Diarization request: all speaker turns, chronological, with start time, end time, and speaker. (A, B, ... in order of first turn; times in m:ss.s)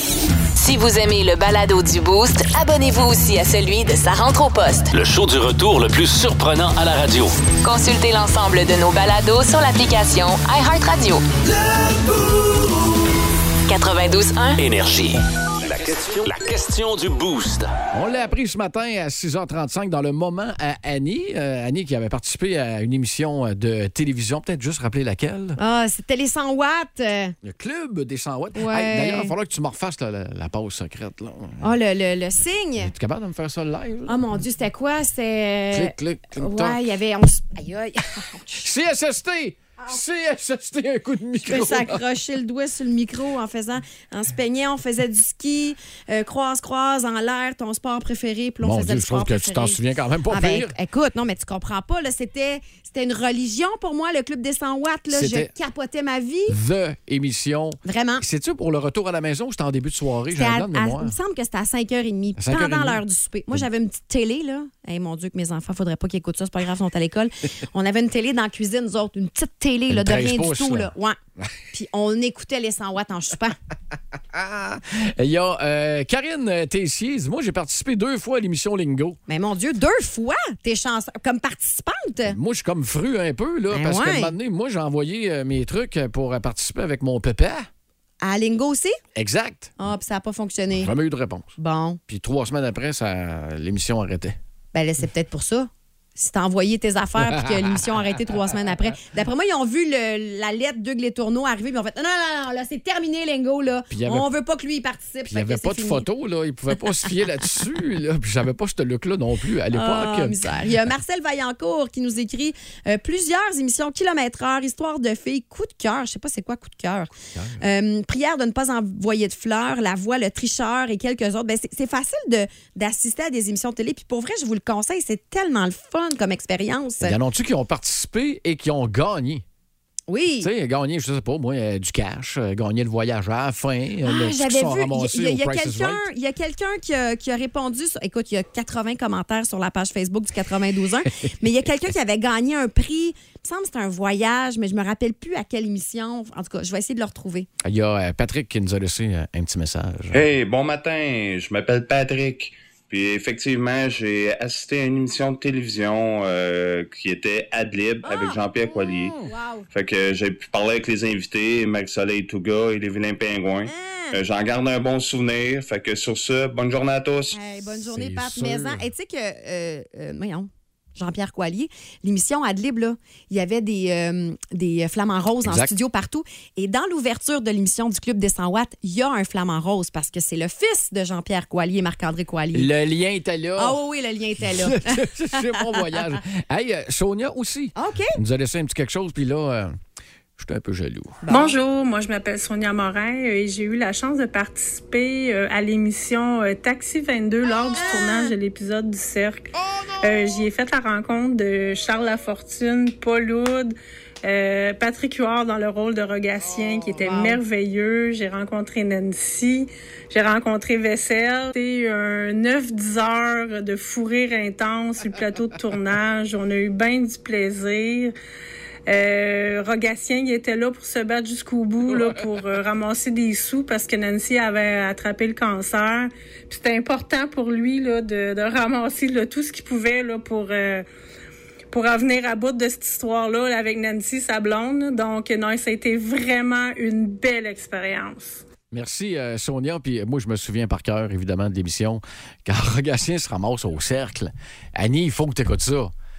0:00.6-0:04.9 A
0:04.9-0:07.4 B
0:07.6-0:11.2 A
0:13.7-0:14.6 A
0:14.6-0:17.7 B
0:17.9-0:25.6 C
0:25.6-0:27.4 D
0:27.4-0:31.6 C
0:28.6-0:29.3 D
0:31.6-0:32.9 D
0:32.8-0:34.2 C
0:34.1-0:38.7 D
0:35.7-0:36.8 C
0:38.6-0:42.0 C
0:41.4-0:56.6 D
0:48.6-0:50.8 C
0:55.1-0:55.5 C
0:56.5-1:01.2 C
0:57.8-0:58.2 D
1:00.3-1:11.2 D
1:02.4-1:03.0 C
1:09.9-1:11.5 C
1:11.7-1:13.6 D
1:14.3-1:19.2 C
1:19.3-1:22.4 D
1:22.3-1:27.7 C
1:23.7-1:24.3 D
1:28.2-1:29.0 D
1:29.2-1:29.8 C
1:29.8-1:30.9 D
1:30.7-1:31.5 C
1:31.6-1:32.0 D
1:32.1-1:34.4 C
1:34.7-1:46.1 D
1:37.2-1:37.8 C
1:43.9-1:44.3 C
1:45.3-1:50.4 C
1:49.7-2:07.2 D
1:57.3-1:57.6 C
2:07.0-2:09.4 C
2:10.1-2:10.5 D
2:10.4-2:16.0 C
2:14.0-2:27.5 D
2:27.6-2:30.3 C
2:30.1-2:39.2 E
2:38.1-2:39.7 D
2:39.7-2:47.4 E
2:43.7-2:44.2 D
2:47.3-3:02.7 D
2:47.6-2:48.9 C
2:55.4-2:55.7 C
3:02.5-3:03.8 C
3:03.6-3:05.0 D
3:04.4-3:09.8 C
3:07.8-3:08.2 D
3:10.4-3:11.2 C
3:11.2-3:11.6 D
3:11.3-3:38.1 F
3:17.7-3:18.3 D
3:19.6-3:20.0 C
3:27.0-3:27.4 D
3:38.9-3:50.9 F
3:41.9-3:42.2 C
3:51.7-3:58.4 F
3:58.7-4:05.9 C